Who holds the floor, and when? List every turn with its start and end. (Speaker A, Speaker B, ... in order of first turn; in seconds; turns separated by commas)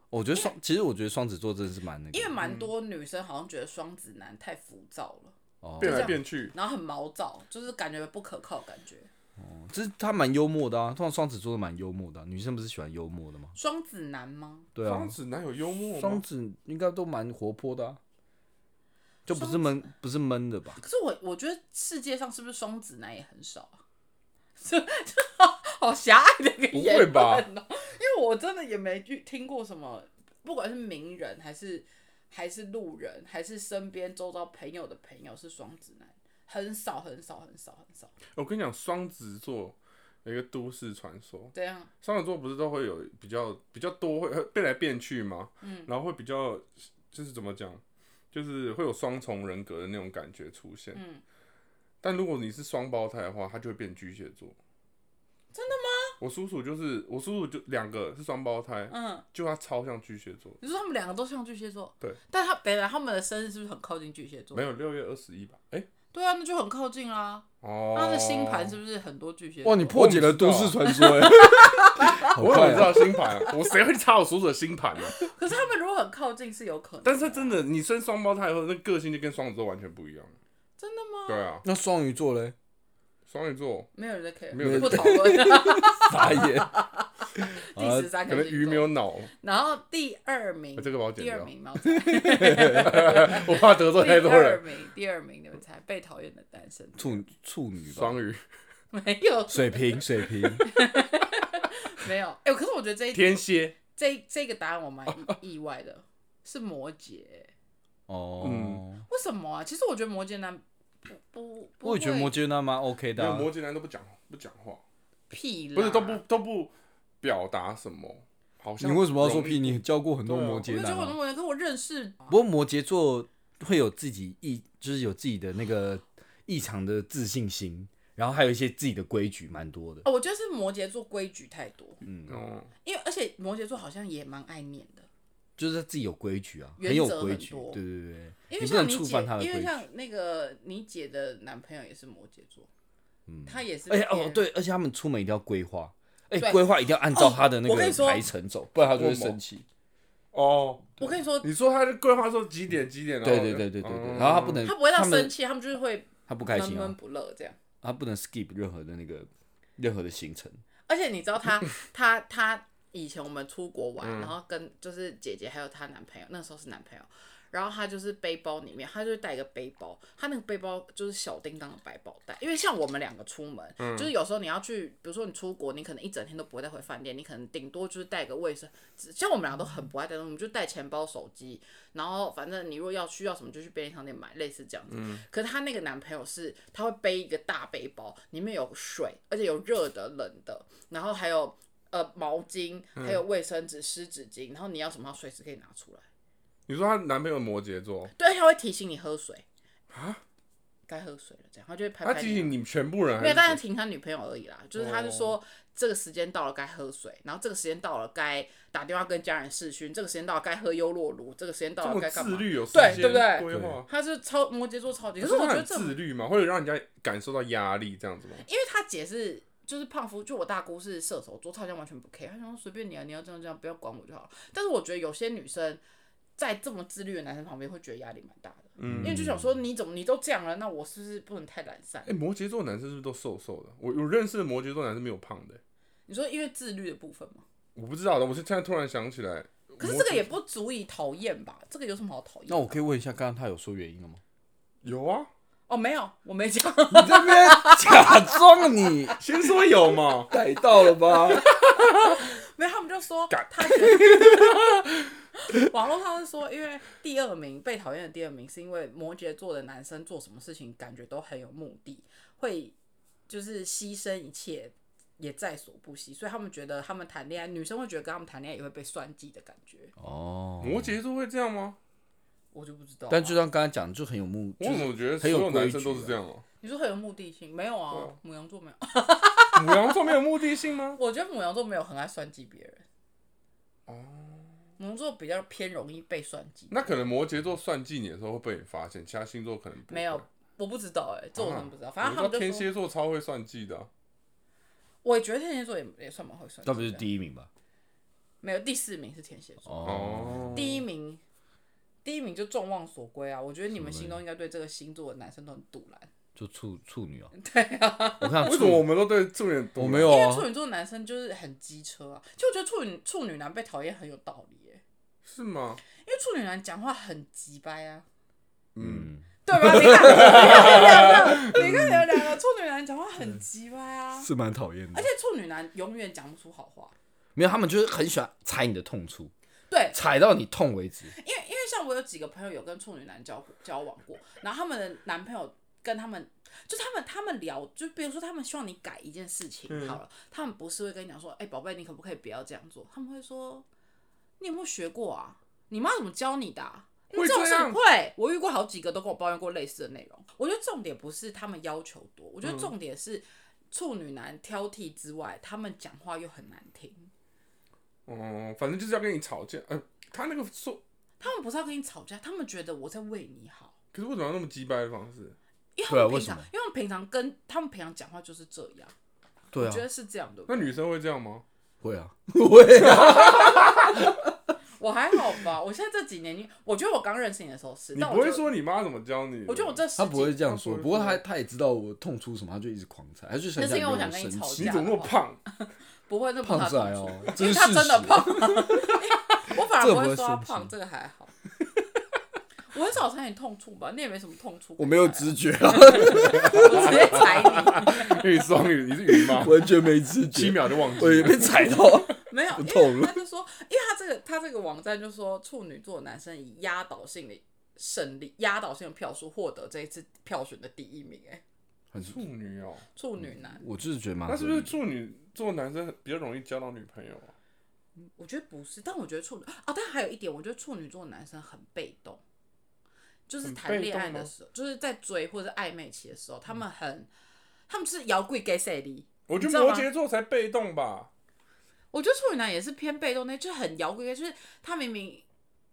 Speaker A: 0.1-2.4, Speaker B: 2.1-9.1, Speaker C: 2.4-2.7, Speaker A: 5.6-6.2, Speaker C: 5.8-6.5, Speaker A: 9.4-13.6, Speaker B: 13.6-14.7, Speaker A: 14.8-15.2, Speaker C: 14.8-16.2, Speaker A: 15.9-18.0, Speaker A: 19.3-20.8, Speaker B: 19.3-19.9, Speaker B: 20.8-23.8, Speaker B: 24.6-38.1, Speaker C: 26.7-27.5, Speaker C: 38.4-51.0, Speaker B: 41.5-41.9, Speaker B: 45.6-45.9, Speaker B: 50.9-51.2, Speaker C: 52.0-54.6, Speaker B: 55.5-56.2, Speaker C: 56.2-60.6, Speaker B: 58.9-59.2, Speaker B: 60.6-64.7, Speaker C: 64.5-65.9, Speaker B: 66.1-70.0, Speaker C: 67.6-68.8, Speaker A: 69.6-73.2, Speaker C: 69.9-70.9, Speaker B: 70.9-73.5, Speaker C: 72.1-75.3, Speaker B: 75.2-77.6, Speaker C: 77.0-80.4, Speaker B: 80.8-81.5, Speaker C: 81.3-81.7, Speaker A: 81.6-82.5, Speaker C: 83.3-83.9, Speaker B: 84.0-97.3, Speaker C: 84.5-85.2, Speaker A: 84.6-86.7, Speaker A: 87.4-88.1, Speaker C: 88.3-89.3, Speaker C: 90.8-91.5, Speaker A: 92.0-93.0, Speaker C: 92.8-94.6, Speaker A: 97.0-98.2, Speaker C: 97.9-98.4, Speaker B: 98.9-107.5, Speaker A: 99.5-100.7, Speaker C: 103.1-103.8, Speaker C: 105.1-105.3, Speaker A: 108.1-109.0, Speaker C: 108.4-108.8, Speaker B: 109.1-112.4, Speaker A: 111.8-113.5, Speaker C: 113.2-114.8, Speaker B: 115.3-116.2, Speaker C: 115.8-120.7, Speaker A: 118.8-121.2, Speaker B: 120.6-122.3, Speaker A: 122.3-130.1, Speaker B: 130.0-132.0, Speaker A: 132.0-132.4, Speaker C: 132.3-132.7, Speaker B: 132.8-135.1, Speaker A: 135.6-139.8, Speaker B: 136.8-137.8, Speaker B: 138.5-142.7, Speaker A: 143.3-149.7, Speaker B: 143.5-144.5, Speaker B: 146.4-148.3, Speaker C: 148.8-149.4, Speaker C: 150.3-154.7, Speaker B: 151.0-151.5, Speaker A: 153.2-155.3, Speaker B: 154.6-157.6, Speaker A: 156.3-157.0, Speaker A: 157.8-160.6, Speaker B: 160.9-196.1, Speaker C: 164.0-164.3, Speaker C: 173.8-174.1, Speaker C: 184.9-185.2, Speaker C: 193.0-193.2, Speaker C: 196.7-198.1, Speaker B: 198.2-199.4, Speaker C: 199.9-200.2, Speaker B: 200.9-202.6, Speaker C: 202.0-203.6, Speaker B: 203.2-216.0, Speaker C: 204.8-205.4, Speaker C: 211.8-213.9, Speaker A: 213.5-213.8, Speaker C: 215.2-218.4, Speaker B: 218.4-225.8, Speaker B: 226.4-232.1, Speaker C: 228.8-229.2, Speaker A: 228.8-229.5, Speaker C: 232.1-235.6, Speaker B: 236.1-237.4, Speaker C: 237.8-240.3, Speaker B: 239.8-242.8, Speaker A: 242.5-244.2, Speaker C: 244.8-245.3, Speaker B: 245.7-249.2, Speaker A: 246.9-249.2, Speaker C: 249.2-250.3, Speaker A: 250.3-251.5, Speaker B: 250.8-254.8, Speaker B: 255.3-262.7, Speaker B: 263.3-269.9, Speaker A: 270.0-271.0, Speaker C: 270.6-271.8, Speaker B: 272.5-273.4, Speaker A: 273.1-276.1, Speaker C: 274.6-276.4, Speaker B: 276.6-280.1, Speaker C: 277.9-278.2, Speaker C: 279.6-281.0, Speaker B: 281.0-282.9, Speaker C: 283.9-284.5, Speaker B: 284.8-287.0, Speaker C: 286.7-290.2, Speaker B: 289.9-292.7, Speaker C: 291.4-293.9, Speaker B: 295.0-297.1, Speaker A: 296.6-297.5, Speaker B: 298.4-301.2, Speaker A: 299.7-300.8, Speaker C: 299.9-300.7, Speaker B: 302.0-306.1, Speaker A: 303.7-304.2, Speaker A: 306.4-307.3, Speaker B: 307.4-308.7, Speaker A: 308.2-308.9, Speaker C: 308.4-310.2, Speaker A: 309.8-310.5, Speaker B: 310.1-314.8, Speaker C: 315.2-315.8, Speaker B: 316.0-318.1, Speaker C: 318.8-319.1, Speaker A: 318.8-321.8, Speaker B: 319.4-324.3, Speaker C: 320.1-321.7, Speaker A: 324.2-325.1, Speaker B: 324.9-326.9, Speaker A: 327.4-329.3, Speaker B: 329.7-330.0, Speaker A: 329.9-331.1, Speaker B: 331.1-343.7, Speaker C: 339.7-340.0, Speaker B: 344.4-357.1, Speaker C: 347.1-347.8, Speaker C: 352.4-352.7, Speaker C: 358.1-360.8, Speaker B: 361.2-363.7, Speaker C: 363.9-365.4, Speaker B: 365.8-368.9, Speaker A: 365.9-366.5, Speaker A: 369.5-369.8, Speaker B: 369.6-370.8, Speaker C: 370.5-371.4, Speaker A: 371.8-374.3, Speaker C: 372.9-373.8, Speaker B: 373.1-373.7, Speaker B: 374.8-378.5, Speaker C: 377.9-379.8, Speaker B: 379.5-380.4, Speaker A: 380.0-384.8, Speaker C: 380.4-381.2, Speaker B: 383.6-391.3, Speaker C: 384.6-385.4, Speaker A: 386.4-389.0, Speaker A: 389.6-390.7, Speaker B: 392.7-398.2, Speaker A: 394.8-397.2, Speaker C: 396.4-402.1, Speaker A: 399.3-403.2, Speaker B: 402.2-411.4, Speaker A: 411.9-412.3, Speaker C: 412.0-412.9, Speaker B: 412.9-413.6, Speaker A: 413.2-414.8, Speaker C: 414.3-417.3, Speaker B: 418.2-422.2, Speaker B: 423.3-427.1, Speaker C: 423.4-424.3, Speaker B: 427.7-429.9, Speaker C: 429.3-431.1, Speaker B: 431.9-435.2